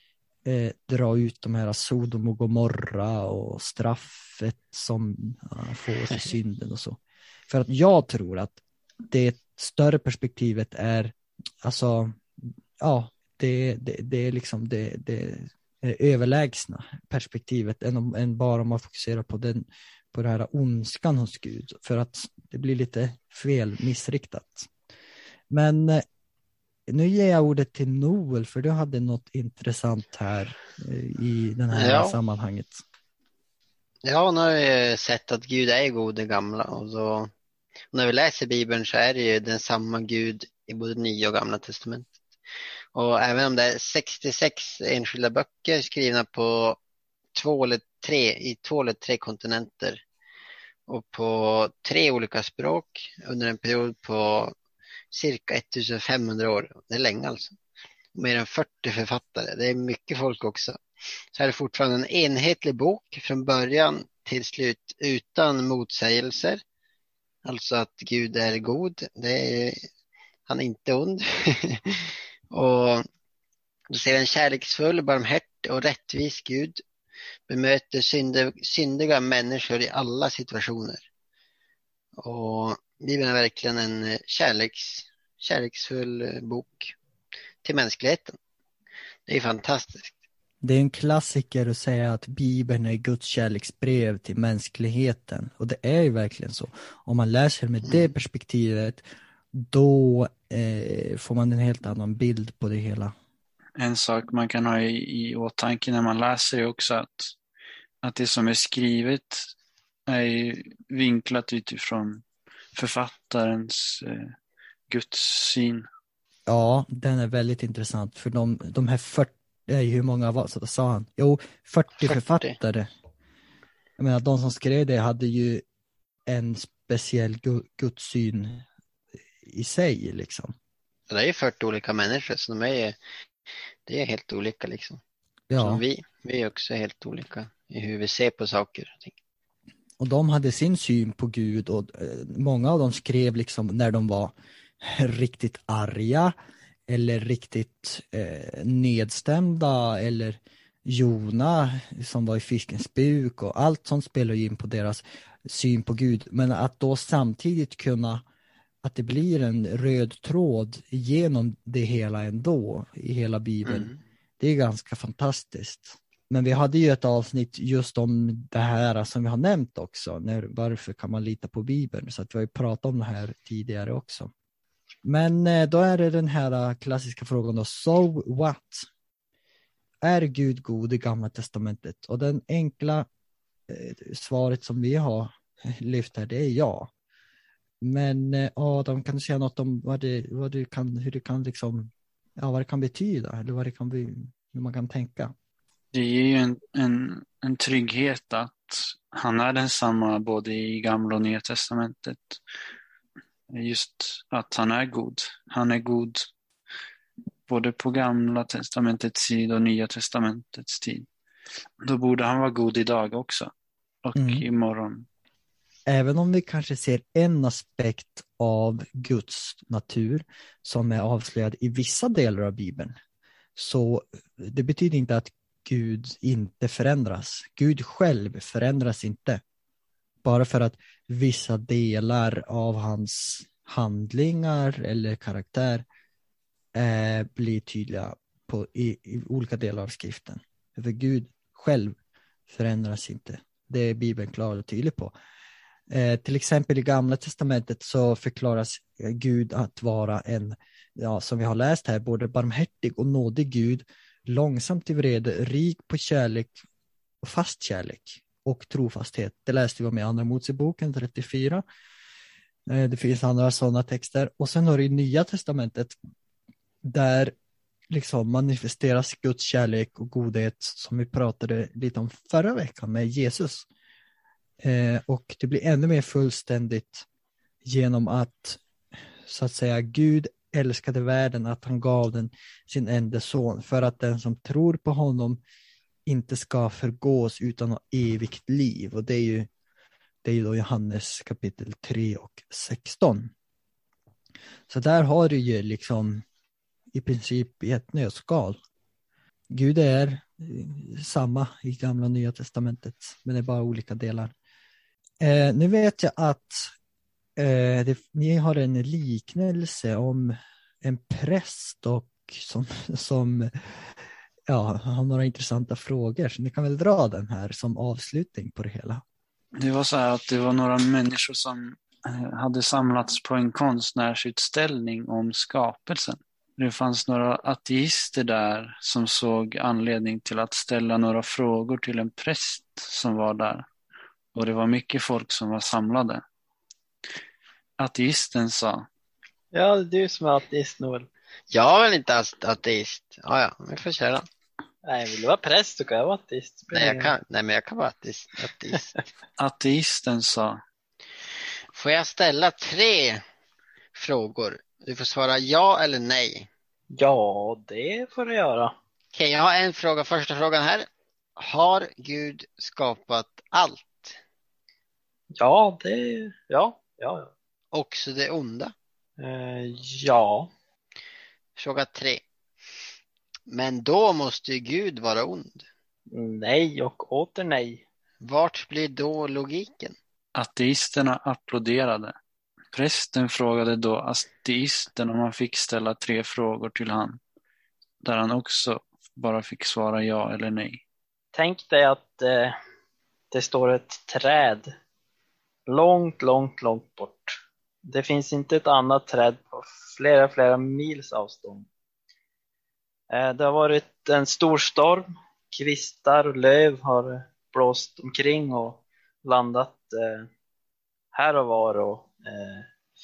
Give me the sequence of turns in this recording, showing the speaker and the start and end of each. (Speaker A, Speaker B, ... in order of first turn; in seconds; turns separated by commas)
Speaker A: 0.5-24.7, Speaker A: 25.5-26.0, Speaker A: 26.9-32.8, Speaker B: 31.7-32.2, Speaker B: 34.0-37.3, Speaker B: 37.9-42.1, Speaker B: 42.9-46.8, Speaker B: 47.4-50.0, Speaker B: 50.9-54.5, Speaker B: 55.1-57.6, Speaker B: 58.1-60.8, Speaker B: 61.3-66.6, Speaker B: 67.5-69.9, Speaker B: 70.5-73.0, Speaker B: 73.9-76.8, Speaker B: 77.5-81.1, Speaker B: 82.2-87.0, Speaker B: 87.6-88.4, Speaker B: 89.3-90.2, Speaker A: 90.6-99.0, Speaker B: 97.9-98.1, Speaker A: 99.5-103.1, Speaker C: 103.8-107.4, Speaker C: 108.0-109.5, Speaker C: 110.1-112.2, Speaker C: 112.8-114.3, Speaker C: 114.9-115.9, Speaker A: 116.5-122.9, Speaker B: 122.0-122.5, Speaker A: 124.0-125.6, Speaker A: 126.3-128.7, Speaker A: 129.4-130.6, Speaker B: 131.1-133.0, Speaker B: 133.9-135.0, Speaker A: 135.5-135.8, Speaker B: 135.6-139.2, Speaker A: 140.0-146.3, Speaker A: 146.9-158.2, Speaker A: 158.8-174.3, Speaker B: 163.6-164.0, Speaker A: 175.0-178.9, Speaker A: 180.0-183.1, Speaker A: 183.7-186.9, Speaker A: 187.8-195.3, Speaker C: 195.9-202.4, Speaker C: 203.5-206.3, Speaker C: 207.5-211.1, Speaker C: 211.8-213.5, Speaker C: 214.1-215.1, Speaker A: 214.2-214.4, Speaker A: 215.9-222.9, Speaker A: 223.6-229.4, Speaker A: 230.2-235.8, Speaker A: 236.8-241.9, Speaker A: 242.5-245.1, Speaker A: 245.9-256.6, Speaker A: 257.2-261.6, Speaker A: 262.7-266.0, Speaker A: 266.9-267.3, Speaker A: 267.9-273.7, Speaker A: 274.6-277.1, Speaker A: 277.6-278.6, Speaker A: 279.2-285.4, Speaker A: 286.1-289.5, Speaker A: 290.2-293.3, Speaker A: 294.7-296.2, Speaker A: 296.9-298.6, Speaker A: 299.5-304.3, Speaker A: 305.2-306.7, Speaker A: 307.4-319.0, Speaker C: 319.6-333.7, Speaker C: 334.4-336.2, Speaker C: 337.8-338.9, Speaker D: 339.5-341.1, Speaker B: 341.5-344.3, Speaker D: 344.9-347.1, Speaker B: 346.7-348.9, Speaker C: 349.4-350.6, Speaker B: 351.7-353.2, Speaker B: 353.9-356.5, Speaker D: 356.9-358.7, Speaker B: 359.1-364.2, Speaker D: 365.4-367.3, Speaker B: 367.7-368.7, Speaker D: 369.2-370.5, Speaker B: 371.6-372.2, Speaker B: 373.5-375.7, Speaker D: 376.1-377.9, Speaker B: 378.2-380.0, Speaker C: 380.4-382.1, Speaker C: 382.7-387.2, Speaker C: 388.0-390.8, Speaker D: 391.3-392.6, Speaker D: 393.3-394.7, Speaker D: 395.7-401.7, Speaker D: 403.1-410.3, Speaker D: 411.1-412.7